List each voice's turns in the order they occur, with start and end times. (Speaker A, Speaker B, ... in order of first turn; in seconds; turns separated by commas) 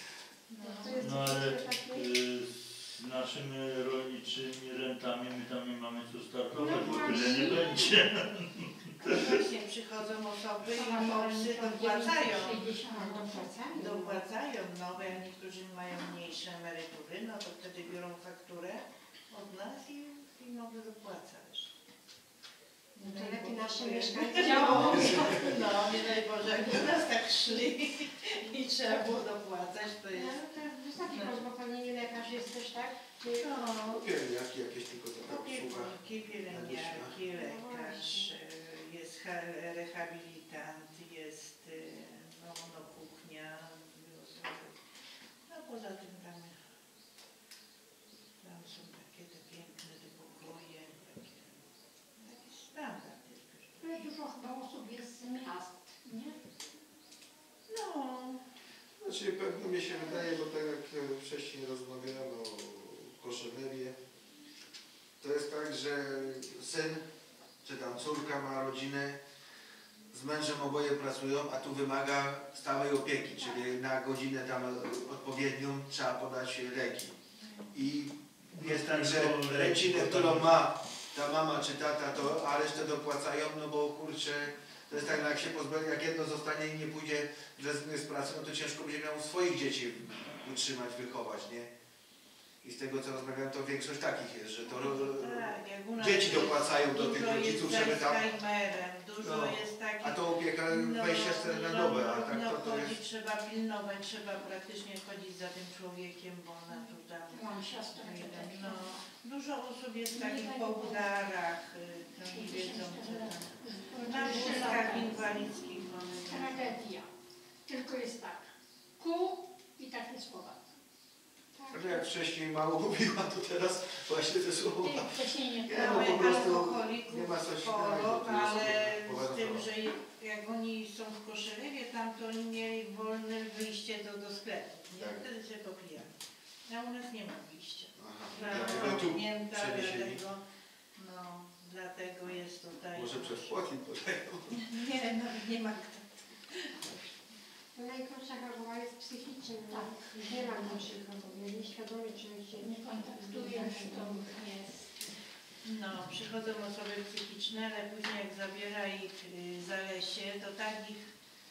Speaker A: 0.5-1.0, Speaker B: 0.6-2.1, Speaker C: 1.0-9.4, Speaker B: 6.5-8.0, Speaker A: 9.0-12.7, Speaker D: 10.6-13.6, Speaker B: 12.8-14.2, Speaker A: 13.6-21.7, Speaker A: 22.9-31.4, Speaker B: 23.0-25.5, Speaker D: 24.4-25.6, Speaker B: 30.1-33.7, Speaker A: 33.4-34.0, Speaker E: 33.9-36.0, Speaker A: 35.2-44.8, Speaker E: 36.5-37.1, Speaker B: 37.2-38.3, Speaker A: 45.5-46.6, Speaker A: 48.4-51.5, Speaker A: 52.2-54.1, Speaker D: 53.8-56.4, Speaker A: 57.7-58.5, Speaker E: 59.0-64.0, Speaker E: 65.2-67.0, Speaker E: 67.6-69.2, Speaker E: 70.1-77.2, Speaker E: 77.7-91.7, Speaker C: 78.5-80.6, Speaker E: 92.6-98.2, Speaker A: 94.6-116.7, Speaker E: 99.2-102.9, Speaker D: 106.7-109.0, Speaker D: 110.1-111.1, Speaker D: 112.2-115.4, Speaker D: 116.2-117.1, Speaker D: 117.7-120.7, Speaker B: 121.5-122.1, Speaker E: 121.7-129.6, Speaker D: 124.8-126.6, Speaker A: 125.7-136.1, Speaker E: 135.0-135.2, Speaker A: 136.7-140.4, Speaker E: 137.9-140.2, Speaker A: 140.9-143.5, Speaker E: 142.9-144.8, Speaker A: 144.6-146.8, Speaker B: 147.7-154.4, Speaker D: 149.7-151.0, Speaker D: 152.6-155.1, Speaker A: 155.6-161.0